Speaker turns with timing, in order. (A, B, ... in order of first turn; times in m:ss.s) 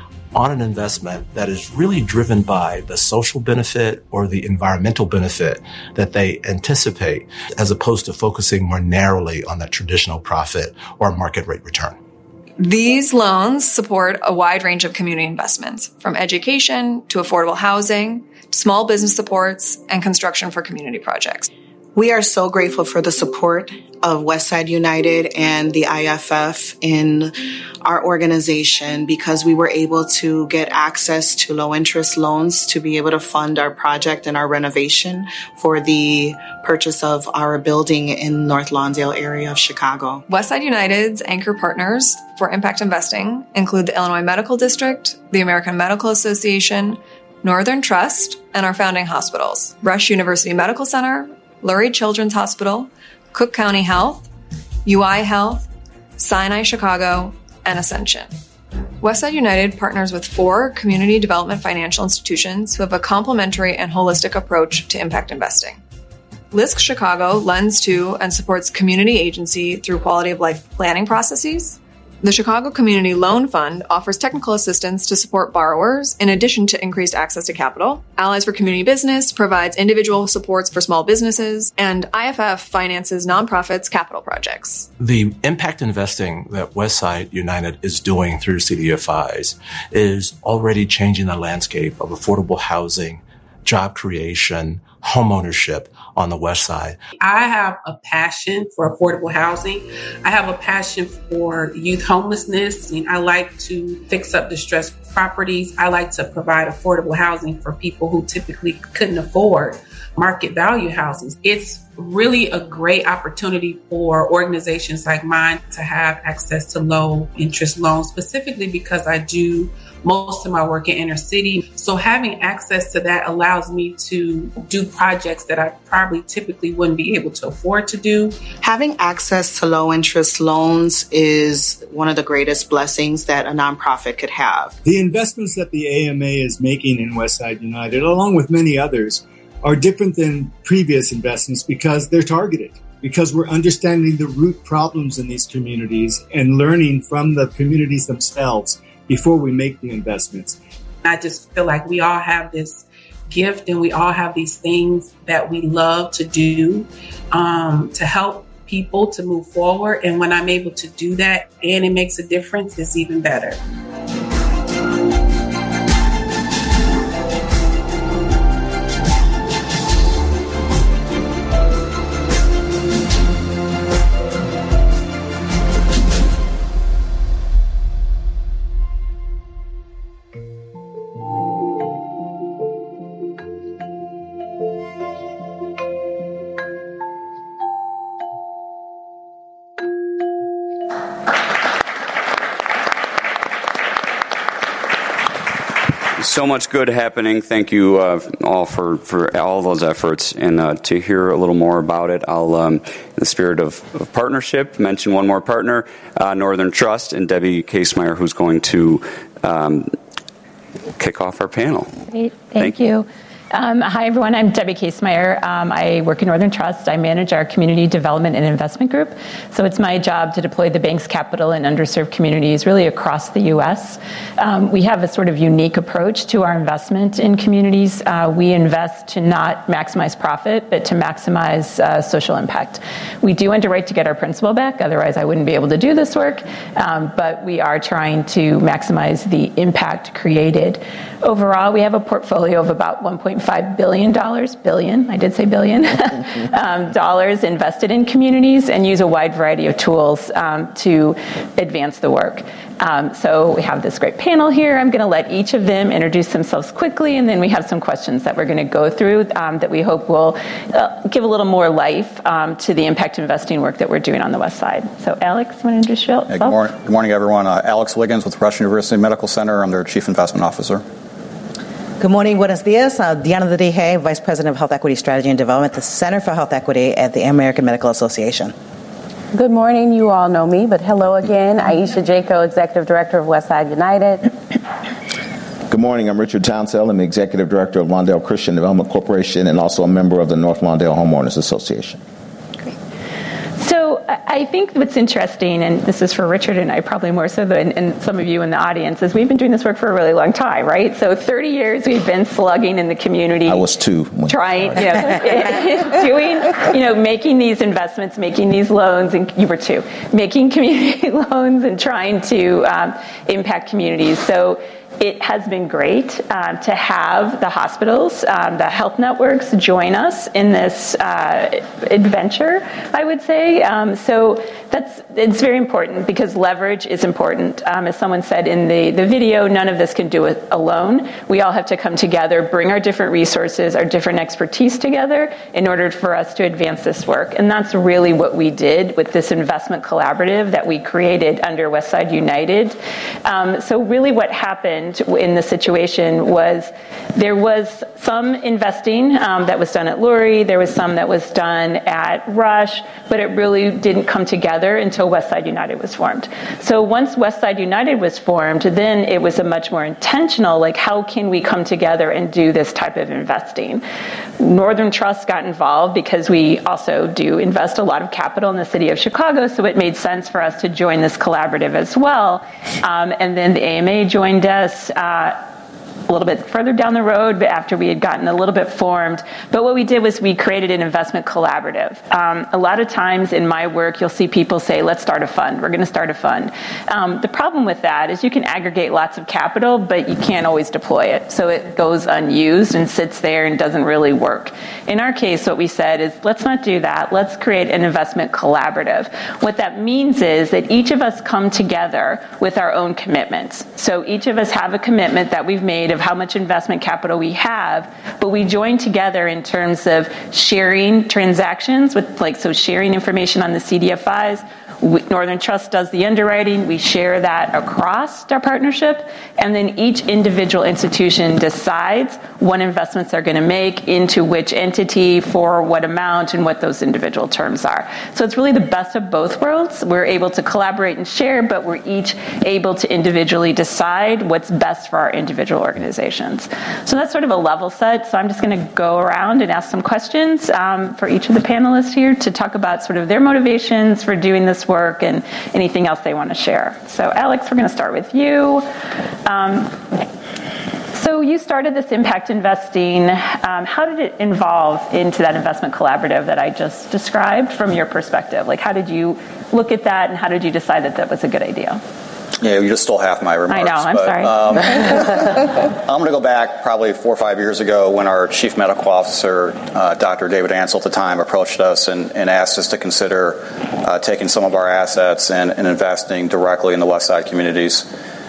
0:00.3-0:12.0 A
0:12.6-0:21.5 B
0:22.0-0:27.3 C
0:27.8-0:40.2 C
0:40.3-0:54.2 B
0:54.8-0:55.6 B
0:56.2-0:58.3 B
0:59.0-1:05.8 B
1:06.5-1:24.9 B
1:25.0-1:37.0 A
1:37.2-2:08.4 D
2:08.5-2:14.7 C
2:14.8-2:30.6 E
2:31.0-2:43.6 D
3:16.2-3:29.9 F
3:31.0-3:31.9 F
3:32.1-4:26.6 G
4:26.3-4:30.8 H
4:32.0-4:38.5 I
4:39.3-4:44.3 J
4:45.7-4:52.0 K
4:53.6-6:03.8 G
5:03.5-5:04.8 K
6:04.4-6:15.4 G
6:16.1-7:28.6 G
7:29.2-7:29.8 G
7:30.9-7:41.8 G
7:42.4-7:45.3 H
7:43.5-7:45.0 G
7:45.8-7:57.9 H